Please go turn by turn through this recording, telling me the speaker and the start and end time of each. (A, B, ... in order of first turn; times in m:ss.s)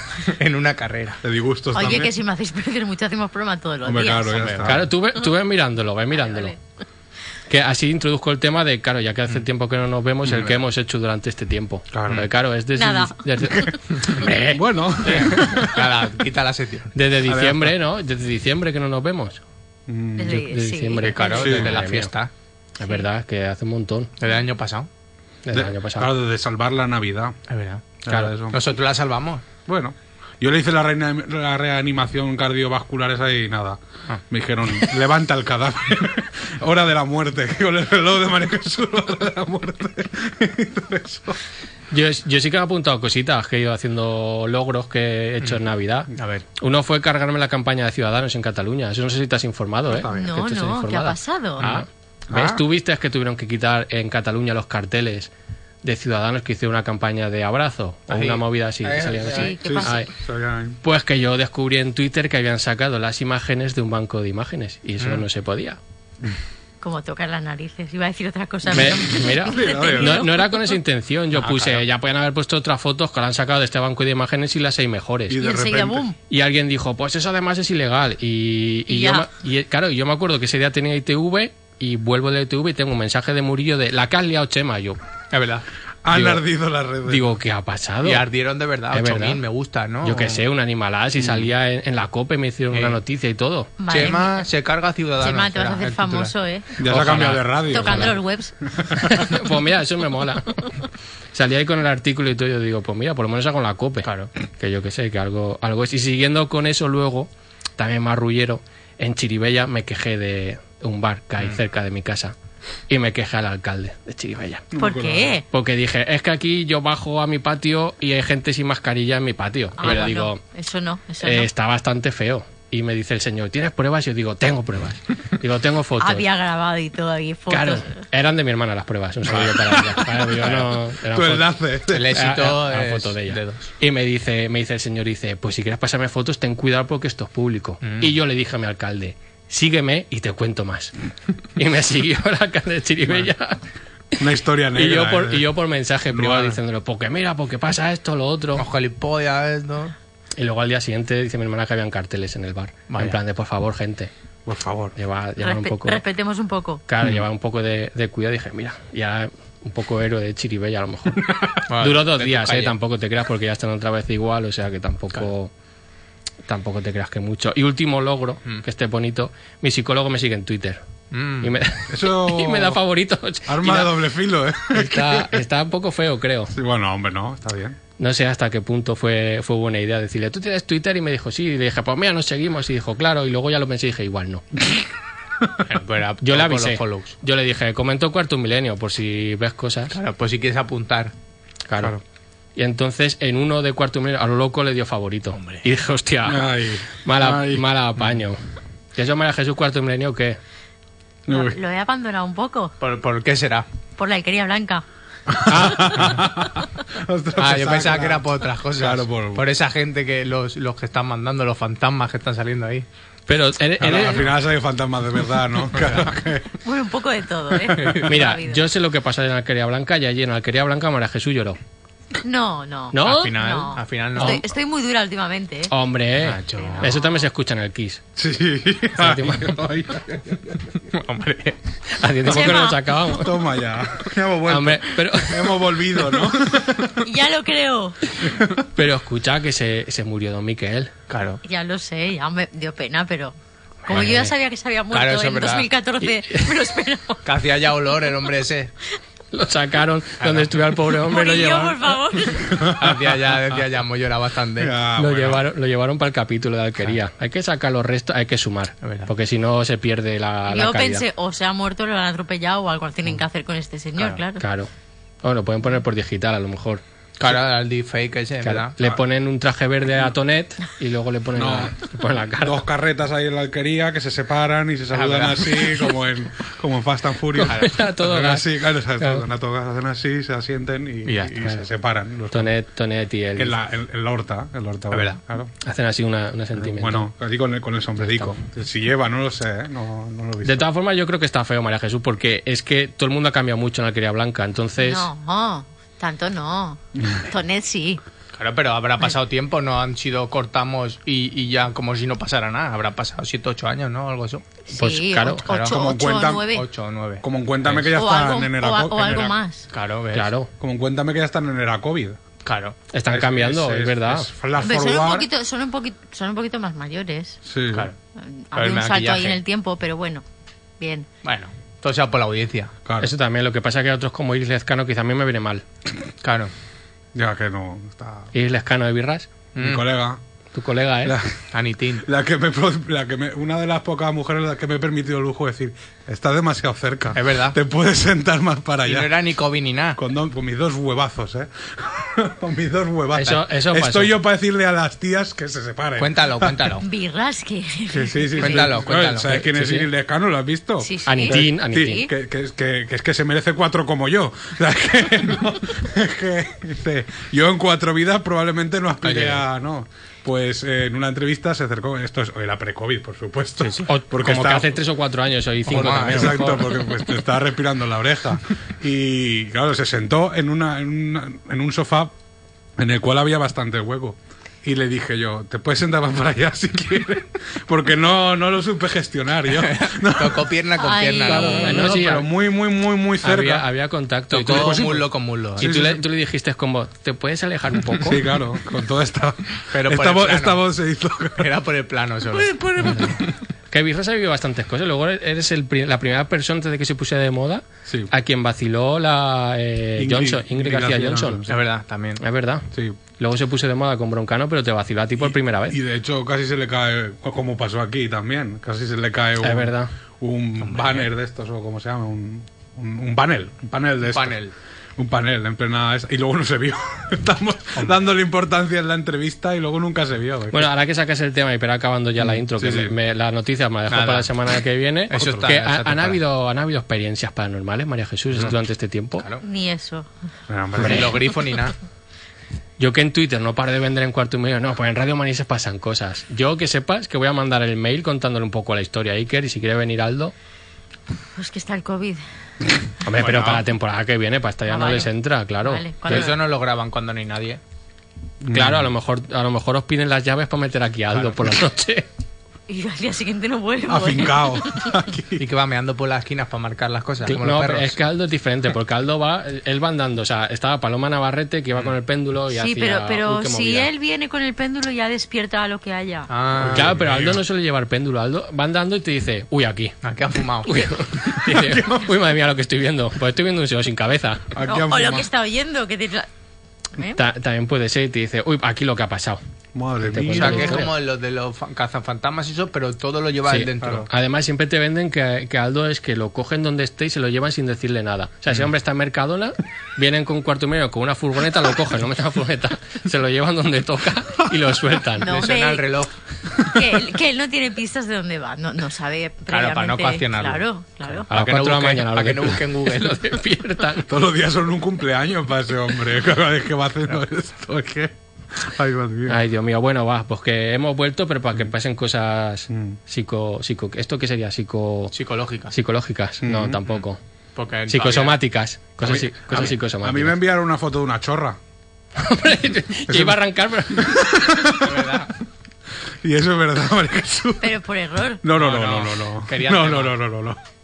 0:00.2-0:01.2 A
0:01.2-0:02.1 B
0:01.7-0:04.4 C
0:03.8-0:04.8 B
0:04.3-0:04.8 A
0:04.6-0:06.5 D
0:06.1-0:06.6 C
0:07.5-0:15.7 D
0:10.2-0:10.6 B
0:11.9-0:12.3 B
0:12.8-0:13.2 C
0:13.4-0:13.7 B
0:14.2-0:15.6 B
0:15.0-0:16.9 A
0:16.9-0:19.4 D
0:17.3-0:17.7 B
0:19.9-0:20.5 B
0:20.2-0:21.7 C
0:20.3-0:22.1 D
0:21.0-0:22.3 A
0:21.3-0:21.7 B
0:22.8-0:24.1 D
0:24.2-0:24.9 A
0:25.4-0:26.1 D
0:25.5-0:27.4 B
0:27.5-0:27.8 A
0:28.0-0:28.6 B
0:28.1-0:28.3 D
0:28.5-0:29.4 A
0:29.6-0:41.4 B
0:41.9-0:55.3 D
0:46.1-0:46.4 A
0:49.9-0:50.4 B
0:50.1-0:51.6 C
0:52.3-0:52.6 B
0:55.8-1:00.1 D
0:58.1-0:59.5 A
0:59.3-1:00.0 C
0:59.6-1:00.8 B
1:00.8-1:05.8 D
1:05.0-1:05.2 A
1:06.8-1:10.7 C
1:08.7-1:15.4 D
1:09.4-1:10.3 B
1:11.3-1:11.8 A
1:15.3-1:16.1 B
1:15.4-1:16.2 C
1:16.3-1:25.0 D
1:18.9-1:19.3 C
1:25.3-1:26.4 A
1:26.0-1:27.3 B
1:27.1-1:28.2 D
1:28.0-1:30.4 A
1:28.9-1:29.4 D
1:30.0-1:33.7 D
1:31.2-1:31.4 B
1:32.7-1:33.0 A
1:33.8-1:34.4 C
1:33.9-1:36.3 A
1:35.2-1:36.7 C
1:36.8-1:38.2 B
1:36.8-1:38.1 D
1:37.6-1:38.6 C
1:38.8-1:39.4 B
1:39.0-1:40.8 D
1:41.3-1:52.3 D
1:44.0-1:44.3 A
1:52.9-1:54.6 D
1:54.7-1:55.4 B
1:54.8-1:55.4 C
1:55.5-2:00.4 D
1:59.8-2:01.5 C
1:59.8-2:00.1 A
2:01.2-2:06.2 D
2:06.0-2:08.0 C
2:07.5-2:11.5 D
2:09.4-2:09.8 B
2:11.1-2:12.2 B
2:11.9-2:13.7 A
2:12.1-2:20.9 D
2:17.8-2:18.1 A
2:21.6-2:23.6 D
2:24.1-2:28.6 D
2:24.2-2:25.5 B
2:26.1-2:26.6 A
2:28.6-2:29.9 A
2:30.4-2:34.1 D
2:32.9-2:33.2 A
2:34.4-2:35.0 B
2:35.0-2:36.0 D
2:35.4-2:36.8 C
2:36.9-2:41.3 D
2:41.2-2:41.6 B
2:41.7-2:42.7 A
2:41.8-2:45.5 D
2:46.4-2:50.8 D
2:51.1-2:51.5 A
2:51.4-2:53.9 D
2:51.9-2:52.8 B
2:53.4-2:55.4 B
2:54.7-2:56.5 D
2:56.5-2:57.8 B
2:58.0-3:04.4 D
3:05.6-3:07.1 A
3:06.2-3:10.0 D
3:09.9-3:11.1 A
3:11.7-3:12.0 D
3:12.6-3:18.4 D
3:15.4-3:15.6 A
3:16.2-3:17.7 B
3:19.0-3:20.4 D
3:21.3-3:21.6 B
3:21.3-3:22.7 C
3:22.8-3:23.7 A
3:24.0-3:24.8 C
3:25.3-3:29.5 B
3:25.4-3:26.2 D
3:27.4-3:32.8 A
3:33.3-3:34.3 D
3:33.8-3:36.5 B
3:35.8-3:36.1 A
3:36.6-3:38.6 C
3:37.5-3:38.0 B
3:37.8-3:38.1 A
3:38.0-3:41.6 D
3:42.2-3:45.7 C
3:42.9-3:43.3 D
3:43.0-3:44.4 A
3:44.2-3:44.4 D
3:45.7-3:48.0 D
3:46.2-3:46.9 A
3:46.6-3:47.3 C
3:48.2-3:50.8 B
3:48.9-3:49.6 D
3:50.9-3:51.6 A
3:51.9-3:53.4 D
3:52.3-3:57.0 B
3:52.3-3:52.8 C
3:54.5-3:55.7 D
3:57.0-3:58.0 C
3:58.2-3:58.6 B
3:58.7-4:00.9 D
4:01.1-4:01.4 A
4:01.4-4:03.4 C
4:03.9-4:04.3 D
4:03.9-4:07.2 C
4:03.9-4:04.3 A
4:04.9-4:05.7 A
4:06.0-4:06.5 D
4:07.2-4:08.7 A
4:09.3-4:11.9 D
4:10.2-4:10.6 A
4:11.0-4:12.5 C
4:12.5-4:13.4 B
4:12.8-4:14.7 A
4:14.6-4:15.4 B
4:15.0-4:21.0 D
4:18.8-4:19.1 A
4:20.5-4:24.4 C
4:24.4-4:24.7 D
4:25.2-4:26.8 D
4:27.2-4:28.7 A
4:28.4-4:32.6 D
4:31.4-4:42.5 B
4:34.9-4:35.9 A
4:37.3-4:38.4 D
4:37.5-4:37.8 A
4:41.0-4:41.5 A
4:42.3-4:43.6 D
4:43.4-4:45.5 B
4:44.9-4:45.2 A
4:45.6-4:47.1 D
4:46.6-4:50.7 B
4:48.0-4:48.3 D
4:50.4-4:55.0 D
4:54.8-4:58.0 C
4:58.3-5:04.4 A
5:04.7-5:06.7 C
5:04.7-5:05.4 D
5:05.4-5:05.7 A
5:05.7-5:06.4 B
5:06.5-5:08.0 A
5:07.2-5:09.4 B
5:07.9-5:09.7 C
5:09.7-5:10.3 A
5:10.1-5:10.5 D
5:10.6-5:12.2 B
5:12.4-5:12.8 A
5:12.9-5:14.3 D
5:13.0-5:15.3 B
5:14.6-5:17.4 C
5:17.4-5:17.9 B
5:18.2-5:20.2 C
5:18.5-5:19.4 A
5:20.8-5:21.0 C
5:21.2-5:22.7 A
5:22.8-5:23.1 B
5:23.0-5:25.6 D
5:26.2-5:26.5 A
5:27.1-5:28.3 B
5:28.3-5:29.3 D
5:29.5-5:29.8 A
5:29.6-5:30.2 B
5:30.5-5:31.2 D
5:31.0-5:31.5 B
5:31.5-5:32.0 A
5:32.0-5:39.1 B
5:37.1-5:37.6 A
5:38.8-5:40.0 A
5:40.0-5:46.8 B
5:43.1-5:44.1 D
5:46.0-5:46.8 A
5:46.8-5:48.7 C
5:47.9-6:04.7 B
5:48.4-5:49.5 A
5:49.6-5:49.8 D
5:50.8-5:52.1 C
5:51.1-5:52.1 D
5:59.0-5:59.4 A
6:03.6-6:03.9 A
6:03.9-6:06.7 D
6:05.7-6:06.5 A
6:05.7-6:12.1 B
6:12.8-6:20.6 B
6:19.5-6:22.1 A
6:20.8-6:21.8 C
6:21.2-6:23.6 B
6:21.4-6:22.3 D
6:23.2-6:25.0 D
6:24.3-6:25.7 A
6:24.4-6:26.0 B
6:25.6-6:28.2 D
6:28.0-6:31.5 B
6:29.7-6:30.6 A
6:31.4-6:33.3 A
6:32.3-6:33.2 B
6:32.8-6:33.2 D
6:33.7-6:41.4 D
6:40.0-6:41.6 B
6:41.5-6:42.2 A
6:42.2-6:42.7 D
6:42.7-6:43.0 B
6:43.2-6:45.8 D
6:45.2-6:54.4 B
6:49.4-6:49.9 D
6:50.6-6:51.1 A
6:54.0-6:54.5 A
6:55.0-7:00.7 B
6:57.7-6:58.0 A
7:00.5-7:09.2 D
7:02.6-7:03.0 B
7:03.9-7:04.3 A
7:05.1-7:06.2 A
7:05.1-7:05.5 B
7:09.4-7:10.1 C
7:10.5-7:11.2 B
7:10.8-7:11.7 A
7:10.8-7:11.1 D
7:12.8-7:20.3 D
7:21.4-7:22.2 C
7:23.0-7:26.3 D
7:23.1-7:23.6 A
7:24.7-7:25.1 C
7:25.6-7:26.4 C
7:26.1-7:27.6 A
7:28.4-7:28.9 B
7:28.5-7:32.0 D
7:32.7-7:34.9 C
7:33.9-7:35.4 B
7:35.4-7:38.0 A
7:37.2-7:43.9 D
7:42.5-7:46.3 C
7:46.3-7:46.9 A
7:46.6-7:47.4 B
7:46.7-7:50.0 D
7:50.0-7:50.8 A
7:50.6-7:54.5 D
7:51.3-7:52.1 B
7:54.5-7:55.3 B
7:54.6-7:56.3 C
7:57.1-7:59.4 D
7:59.7-8:00.9 B
8:00.0-8:00.9 D
8:00.3-8:04.1 A
8:03.5-8:15.3 D
8:03.8-8:04.1 B
8:15.2-8:16.0 C
8:15.2-8:16.1 A
8:16.6-8:21.3 C
8:19.5-8:23.2 A
8:21.3-8:24.1 D
8:24.1-8:29.4 B
8:29.3-8:35.1 D
8:32.7-8:33.0 B
8:35.1-8:35.8 A
8:35.7-8:37.2 D
8:36.4-8:36.8 B
8:37.6-8:38.4 A
8:37.9-8:40.4 D
8:39.0-8:41.6 B
8:42.2-8:44.2 D
8:43.1-8:45.2 B
8:44.8-8:45.3 A
8:46.2-8:47.8 B
8:47.6-8:48.4 C
8:48.4-8:50.6 B
8:48.6-8:50.1 A